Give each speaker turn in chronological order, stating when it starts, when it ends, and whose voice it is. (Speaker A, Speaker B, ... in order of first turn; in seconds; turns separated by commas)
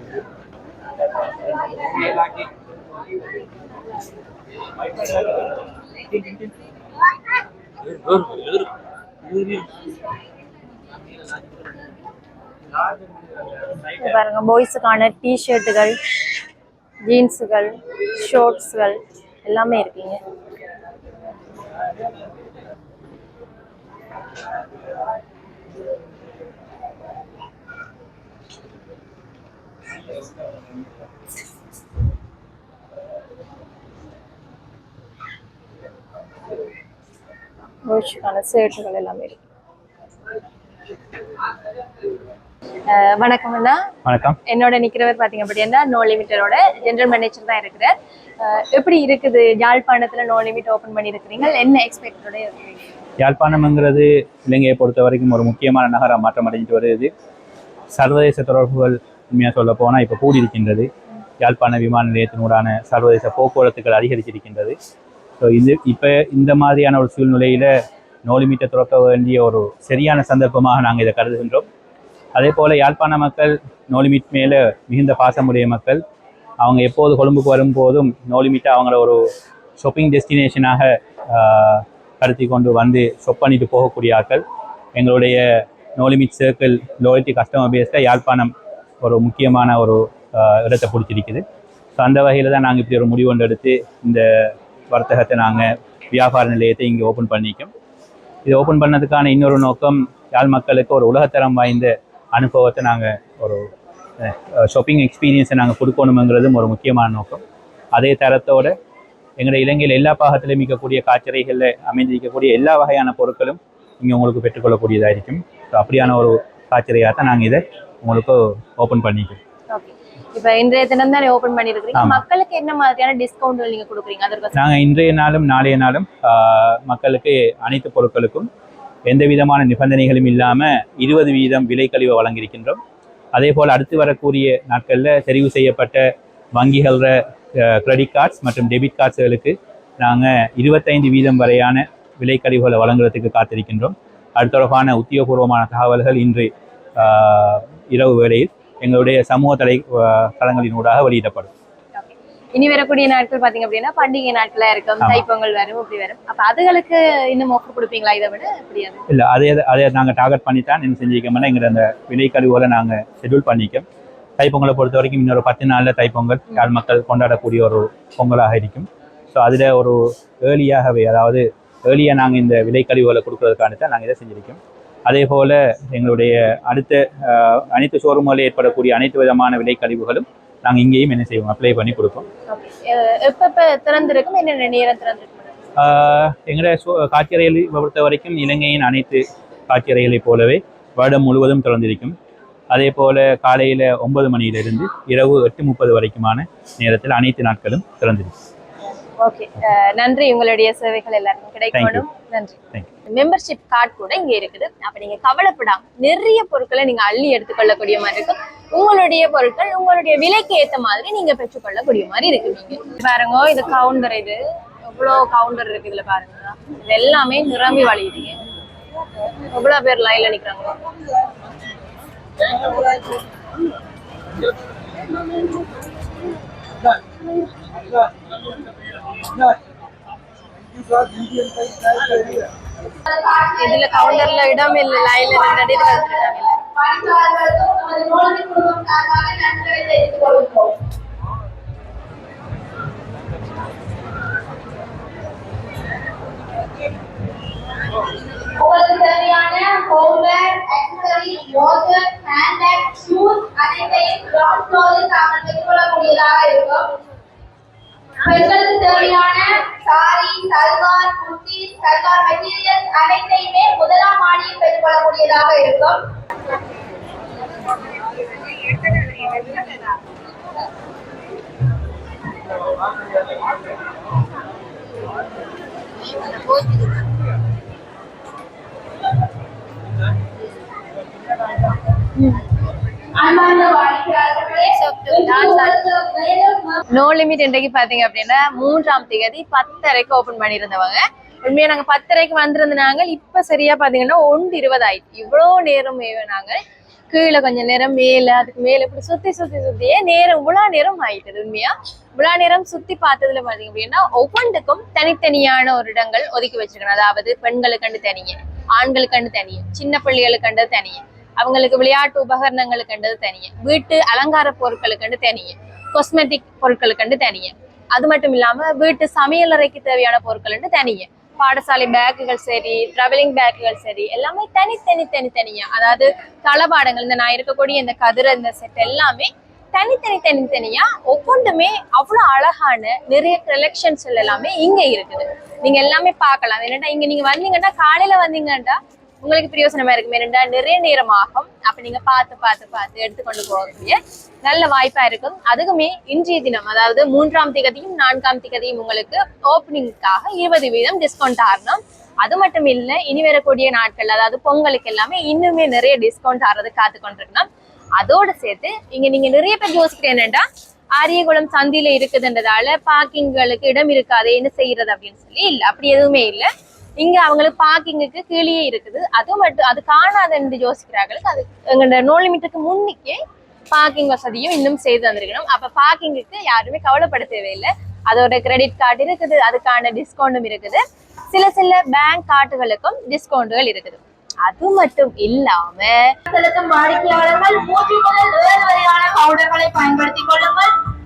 Speaker A: 8.1-8.6, Speaker A: 9.3-9.6, Speaker B: 14.0-16.0, Speaker B: 17.1-20.2, Speaker B: 37.9-39.4, Speaker B: 42.9-43.8, Speaker A: 44.0-44.4, Speaker B: 44.5-52.9, Speaker A: 53.2-57.1, Speaker A: 57.9-64.8, Speaker A: 65.4-67.7, Speaker A: 68.2-71.7, Speaker A: 72.3-76.0, Speaker A: 76.6-79.2, Speaker A: 79.8-84.4, Speaker A: 84.9-91.4, Speaker A: 92.0-97.7, Speaker A: 98.4-103.7, Speaker A: 104.2-107.4, Speaker A: 107.9-108.8, Speaker A: 109.4-119.4, Speaker B: 119.7-124.6, Speaker A: 121.9-122.2, Speaker A: 124.5-128.5, Speaker A: 129.1-132.8, Speaker A: 133.3-151.5, Speaker B: 151.9-159.0, Speaker A: 159.1-163.8, Speaker A: 164.4-182.2, Speaker B: 182.5-185.5, Speaker A: 185.8-192.2, Speaker A: 192.7-198.3, Speaker B: 199.2-218.4, Speaker A: 201.7-202.0, Speaker B: 219.4-220.7, Speaker C: 233.0-240.7, Speaker B: 233.6-236.7, Speaker C: 248.5-256.9, Speaker C: 258.2-266.0, Speaker C: 283.1-286.8, Speaker B: 284.7-285.8, Speaker B: 286.9-296.6, Speaker B: 297.1-386.1, Speaker C: 386.3-390.7